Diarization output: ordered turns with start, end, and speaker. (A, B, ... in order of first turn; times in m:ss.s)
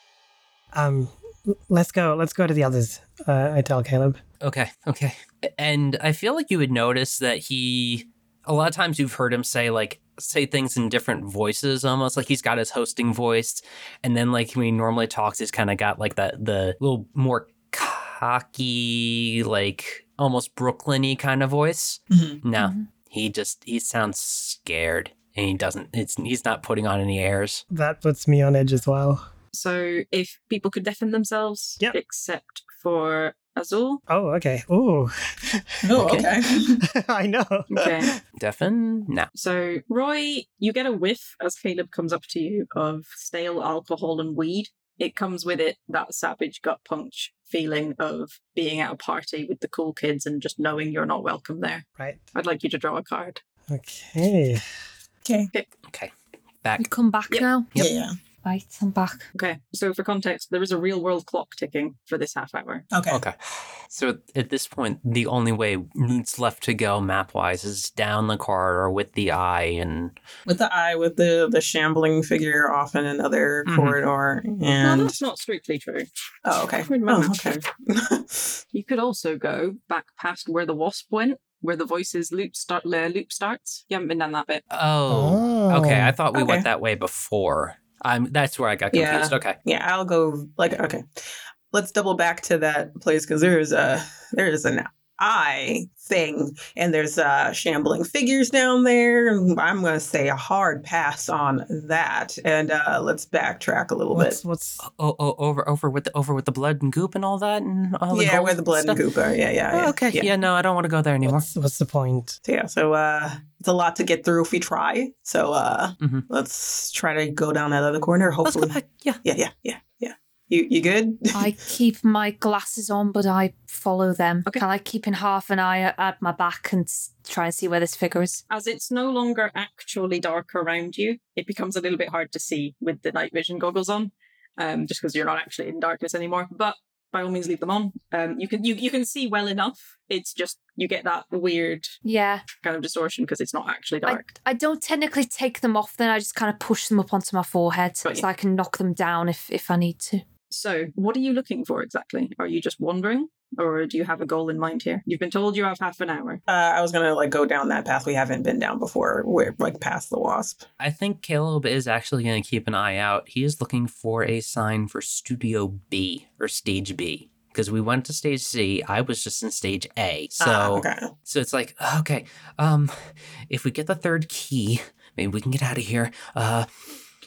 0:00.7-0:04.2 A
0:04.4-0:27.6 B
0:22.1-0:22.4 C
0:22.6-0:22.8 D
0:27.7-0:29.2 A
0:29.5-0:34.0 E
0:34.1-0:36.0 A
0:35.8-0:36.8 C
0:36.0-0:36.3 B
0:36.8-0:38.2 A
0:37.7-0:38.1 E
0:38.4-0:39.3 B
0:39.3-0:53.4 E
0:53.7-0:54.6 A
0:55.2-0:55.5 C
0:56.8-0:57.7 D
0:57.8-0:58.1 C
0:58.4-0:59.3 D
0:59.3-1:02.8 E
1:02.9-1:03.2 C
1:03.1-1:03.4 B
1:03.9-1:10.1 B
1:10.4-1:15.2 C
1:13.6-1:14.0 B
1:14.8-1:16.1 E
1:16.4-1:18.6 C
1:16.8-1:17.6 E
1:18.7-1:24.6 E
1:24.7-1:29.6 B
1:25.1-1:26.2 A
1:26.3-1:26.6 C
1:28.9-1:31.0 C
1:31.7-1:44.4 C
1:44.1-1:44.8 A
1:44.8-1:49.0 B
1:48.1-1:50.3 C
1:49.7-1:51.5 B
1:51.2-1:52.4 A
1:52.4-2:01.5 C
1:56.0-1:56.2 B
1:58.4-1:59.2 B
2:01.3-2:08.4 D
2:08.5-2:21.9 E
2:22.0-2:22.4 D
2:22.6-2:24.3 E
2:24.0-2:30.2 D
2:30.5-2:36.4 E
2:36.5-2:40.6 C
2:40.8-2:56.7 B
2:50.4-2:51.1 C